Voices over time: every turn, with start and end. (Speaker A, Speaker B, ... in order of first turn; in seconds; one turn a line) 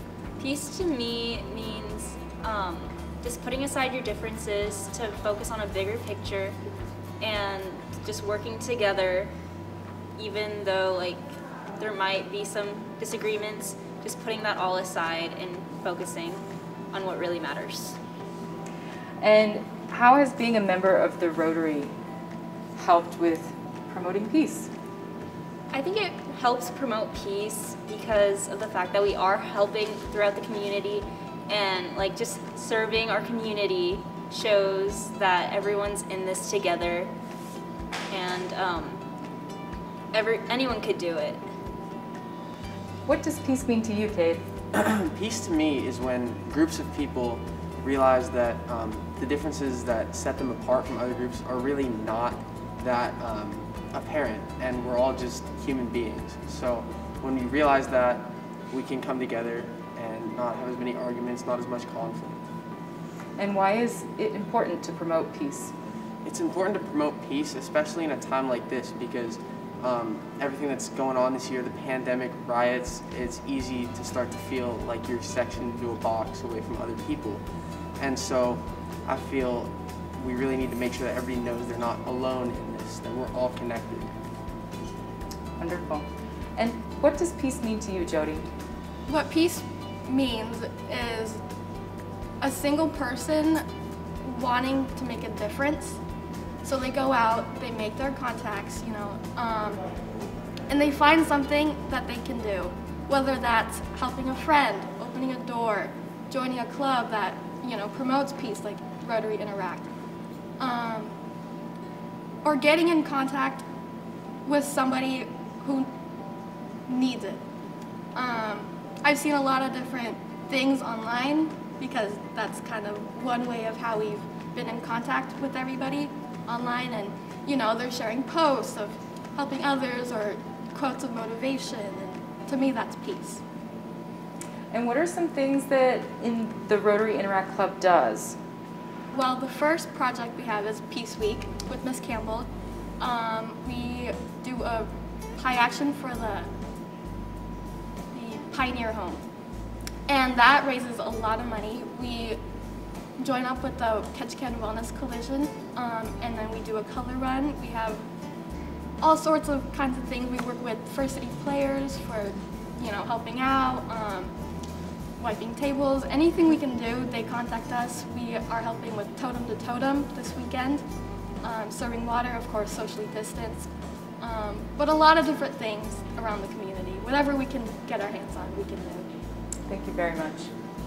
Speaker A: 0.4-6.5
Speaker A: 7.2-9.3
Speaker A: 10.2-11.3
Speaker A: 11.8-18.0
Speaker B: 19.2-21.9
Speaker B: 22.8-24.7
Speaker A: 25.7-37.1
Speaker A: 38.1-39.0
Speaker A: 40.1-41.4
Speaker B: 43.0-44.4
Speaker C: 44.7-62.4
Speaker B: 63.4-65.7
Speaker C: 66.2-77.4
Speaker C: 78.0-84.1
Speaker B: 85.6-88.5
Speaker D: 89.0-91.4
Speaker D: 92.4-93.7
Speaker D: 94.2-96.0
Speaker D: 96.6-99.9
Speaker D: 100.7-109.9
Speaker D: 110.6-111.2
Speaker D: 112.4-113.7
Speaker D: 114.4-115.9
Speaker D: 116.8-117.4
Speaker D: 118.1-133.4
Speaker B: 134.7-138.4
Speaker D: 139.1-146.5
Speaker D: 148.1-149.3
Speaker D: 150.1-152.4
Speaker D: 153.2-158.1
Speaker D: 159.0-164.3
Speaker D: 165.2-170.9
Speaker D: 171.4-179.1
Speaker B: 179.7-180.5